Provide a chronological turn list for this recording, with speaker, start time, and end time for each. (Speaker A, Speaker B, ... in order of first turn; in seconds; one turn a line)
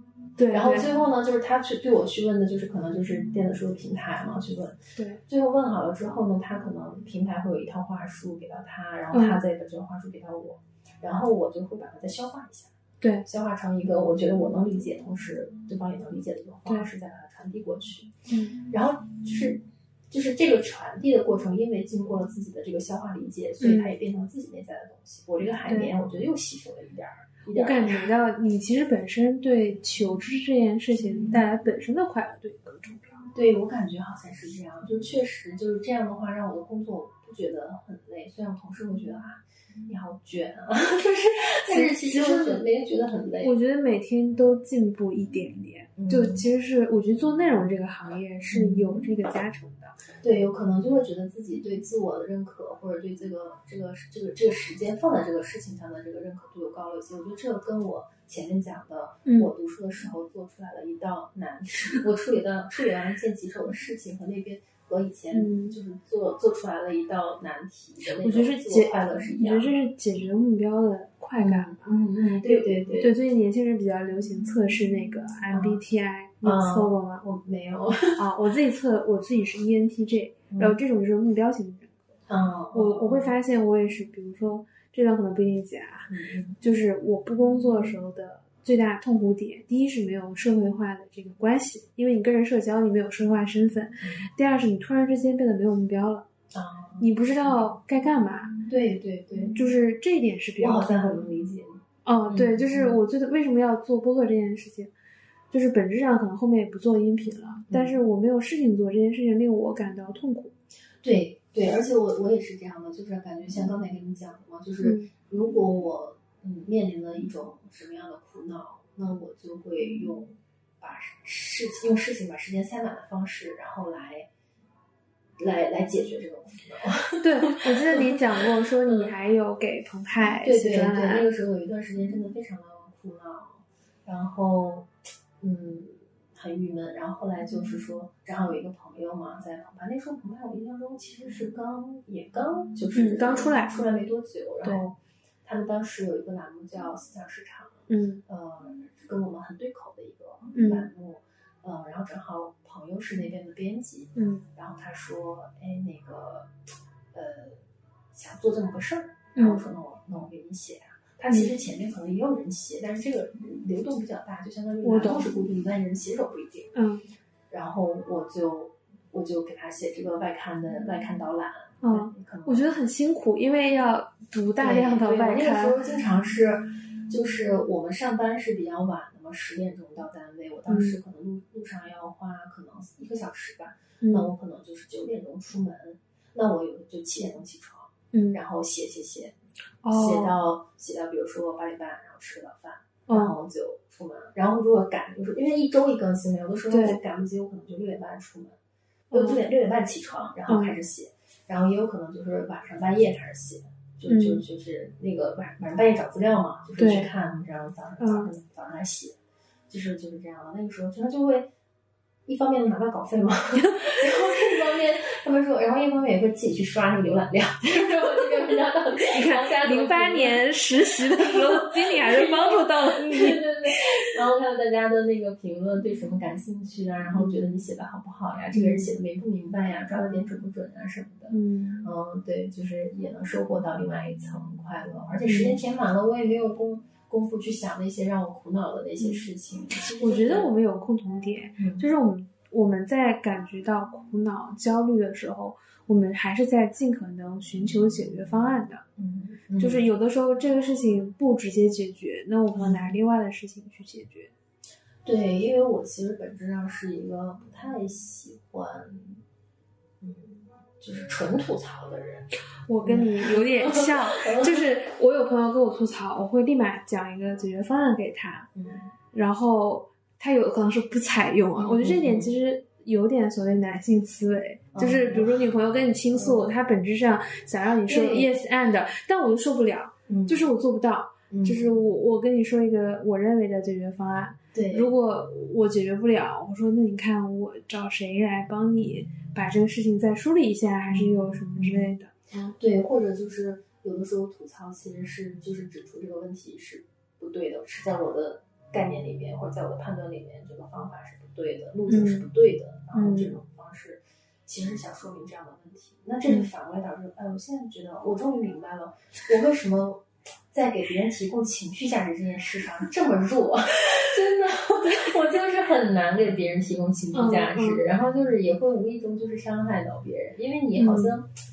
Speaker A: 0.4-0.9
Speaker B: 0.5-4.7
Speaker A: 5.0-5.2
Speaker B: 5.2-12.7
Speaker A: 9.1-9.4
Speaker A: 13.0-13.2
Speaker B: 13.2-28.1
Speaker A: 18.3-18.6
Speaker A: 23.6-23.9
Speaker A: 25.6-25.9
Speaker A: 27.5-33.2
Speaker B: 33.3-43.5
Speaker A: 41.6-42.6
Speaker A: 43.4-50.0
Speaker B: 46.0-46.4
Speaker B: 48.5-49.0
Speaker B: 50.2-69.7
Speaker A: 59.2-59.5
Speaker A: 65.3-65.8
Speaker A: 68.2-77.2
Speaker B: 71.4-73.1
Speaker B: 75.5-75.8
Speaker B: 76.4-78.2
Speaker A: 78.2-81.9
Speaker B: 80.5-80.8
Speaker B: 82.3-83.3
Speaker A: 82.7-96.2
Speaker B: 86.1-86.6
Speaker B: 96.5-97.0
Speaker A: 97.0-98.5
Speaker B: 98.6-99.6
Speaker A: 99.5-101.2
Speaker B: 100.6-103.0
Speaker A: 102.0-104.9
Speaker A: 105.5-110.5
Speaker B: 107.7-108.0
Speaker B: 111.0-124.3
Speaker A: 114.8-115.1
Speaker B: 125.4-128.2
Speaker A: 127.2-131.2
Speaker B: 128.8-129.1
Speaker B: 130.4-156.5
Speaker A: 142.9-143.8
Speaker A: 147.9-148.2
Speaker A: 150.5-150.9
Speaker A: 154.2-154.4
Speaker B: 157.1-157.6
Speaker B: 158.1-166.7
Speaker A: 159.3-159.6
Speaker A: 161.3-161.5
Speaker A: 164.8-165.3
Speaker A: 166.7-167.0
Speaker B: 167.5-172.7
Speaker A: 171.8-175.8
Speaker B: 174.6-189.3
Speaker A: 180.7-181.0
Speaker A: 184.0-184.3
Speaker A: 188.1-188.4
Speaker A: 189.8-190.3
Speaker B: 189.9-198.6
Speaker A: 193.1-193.3
Speaker A: 196.7-197.0
Speaker B: 199.1-209.2
Speaker A: 199.1-199.4
Speaker A: 200.5-200.8
Speaker A: 204.1-204.4
Speaker A: 206.8-207.1
Speaker A: 208.0-208.3
Speaker B: 209.7-211.5
Speaker B: 212.2-220.4
Speaker A: 213.6-214.0
Speaker A: 219.0-223.8
Speaker B: 221.0-240.5
Speaker A: 228.5-228.9
Speaker A: 231.3-231.9
Speaker A: 235.2-235.6
Speaker A: 239.0-248.8
Speaker B: 241.6-241.8
Speaker B: 249.0-249.8
Speaker A: 249.6-254.3
Speaker B: 255.0-259.2
Speaker B: 260.0-262.3
Speaker A: 262.7-268.5
Speaker B: 262.8-264.7
Speaker B: 268.6-268.9
Speaker A: 269.1-292.6
Speaker B: 271.6-272.3
Speaker B: 274.7-275.4
Speaker B: 276.1-276.4
Speaker B: 277.9-278.3
Speaker B: 280.1-280.5
Speaker B: 281.3-281.7
Speaker B: 284.5-284.9
Speaker B: 292.6-321.3
Speaker A: 301.9-302.3
Speaker A: 302.9-303.3
Speaker A: 317.1-317.8
Speaker A: 320.7-321.2